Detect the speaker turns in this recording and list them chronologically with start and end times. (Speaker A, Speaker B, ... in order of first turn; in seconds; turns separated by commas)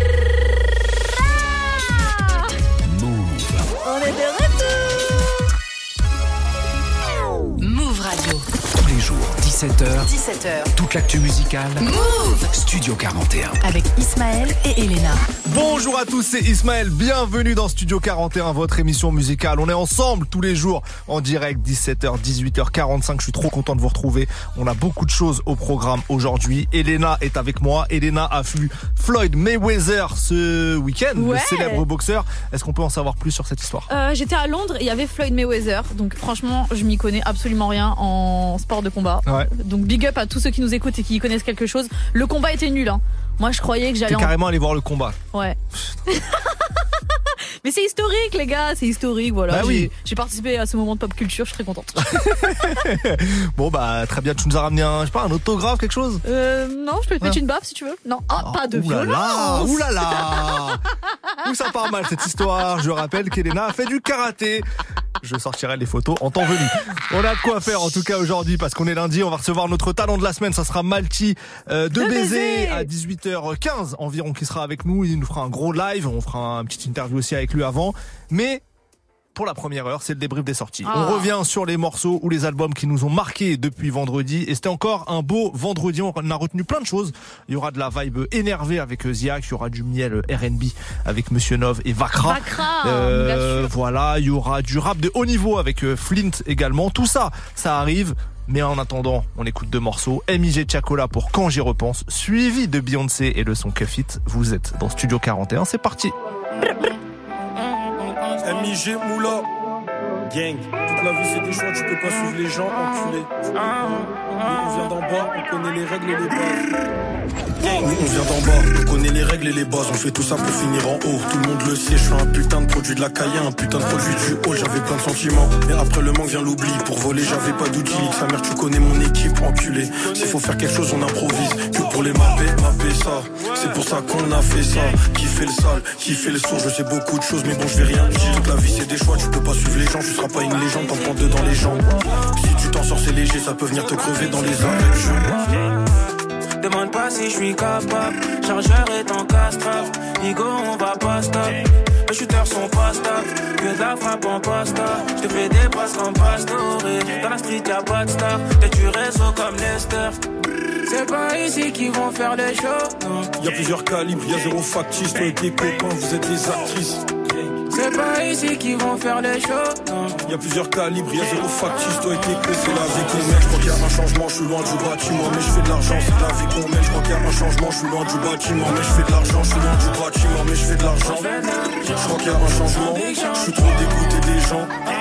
Speaker A: 2.9-3.7, Speaker B: 3.9-4.5, Speaker B: 7.6-8.4, Speaker A: 8.8-10.1, Speaker B: 10.0-10.7, Speaker A: 10.8-11.9, Speaker B: 11.8-12.5, Speaker A: 12.5-13.6, Speaker B: 13.6-15.3, Speaker C: 15.5-33.9, Speaker D: 31.2-31.8, Speaker D: 33.9-44.3, Speaker C: 44.1-45.2, Speaker D: 46.1-46.4, Speaker D: 47.6-52.5, Speaker C: 49.5-49.9, Speaker C: 52.0-56.2, Speaker D: 56.2-60.6, Speaker C: 58.4-60.8, Speaker C: 61.5-64.7, Speaker C: 65.2-78.6, Speaker D: 72.0-72.9, Speaker C: 79.3-106.2, Speaker D: 80.9-81.3, Speaker D: 92.2-93.7, Speaker E: 108.5-109.5, Speaker E: 110.4-113.3, Speaker E: 114.5-116.6, Speaker E: 117.7-145.4, Speaker F: 140.7-141.6, Speaker F: 145.4-145.7, Speaker F: 146.6-160.2, Speaker F: 160.9-163.3, Speaker E: 163.4-167.0, Speaker F: 167.7-170.2, Speaker E: 170.2-181.3, Speaker F: 181.0-184.0, Speaker E: 182.0-184.7